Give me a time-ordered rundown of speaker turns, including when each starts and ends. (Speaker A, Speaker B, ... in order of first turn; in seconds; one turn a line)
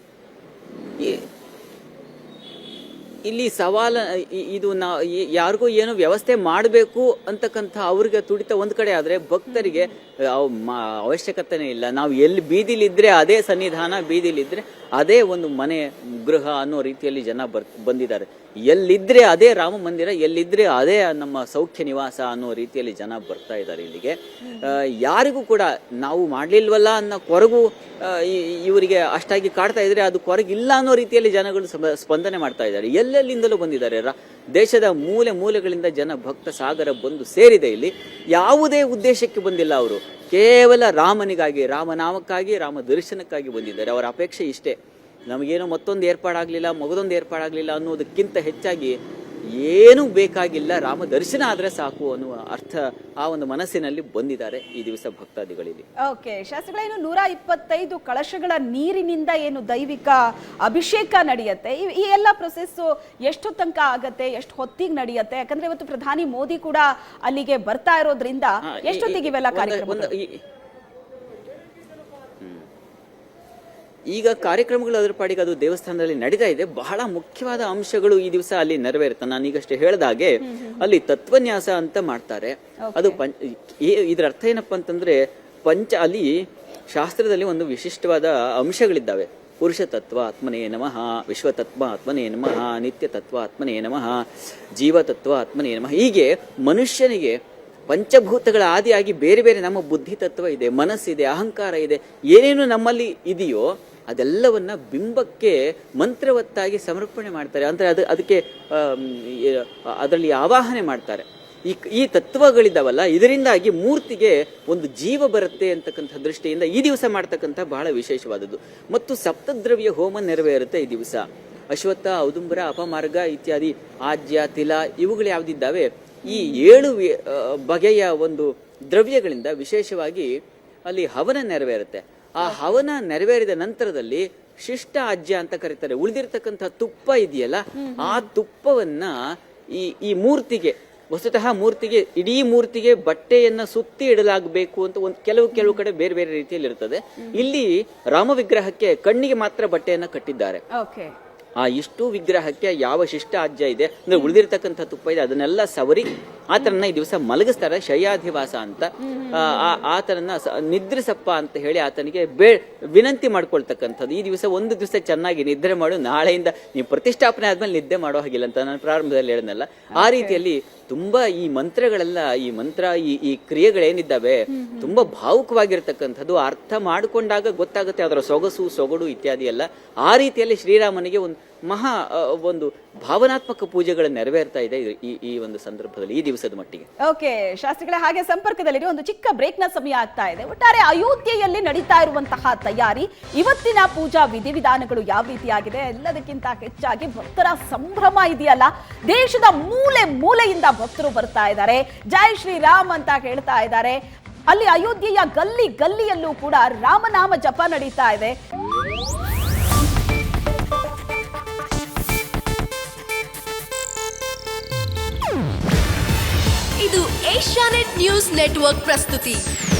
Speaker A: 1.0-1.2
Speaker A: 3.2-44.8
Speaker B: 9.5-9.8
Speaker B: 24.4-24.7
Speaker A: 45.3-49.0
Speaker A: 49.6-55.9
Speaker B: 56.0-70.1
Speaker A: 68.6-70.4
Speaker A: 72.4-72.7
Speaker A: 74.1-86.4
Speaker B: 80.4-80.8
Speaker B: 82.8-83.2
Speaker A: 86.9-94.2
Speaker A: 94.8-97.3
Speaker A: 97.9-130.3
Speaker B: 126.3-126.8
Speaker A: 130.9-139.2
Speaker B: 132.4-132.7
Speaker B: 137.8-138.2
Speaker A: 139.7-150.6
Speaker B: 150.7-151.1
Speaker A: 151.6-186.9
Speaker B: 159.0-159.8
Speaker B: 170.0-170.4
Speaker B: 174.5-175.1
Speaker B: 187.0-208.3
Speaker C: 216.8-219.4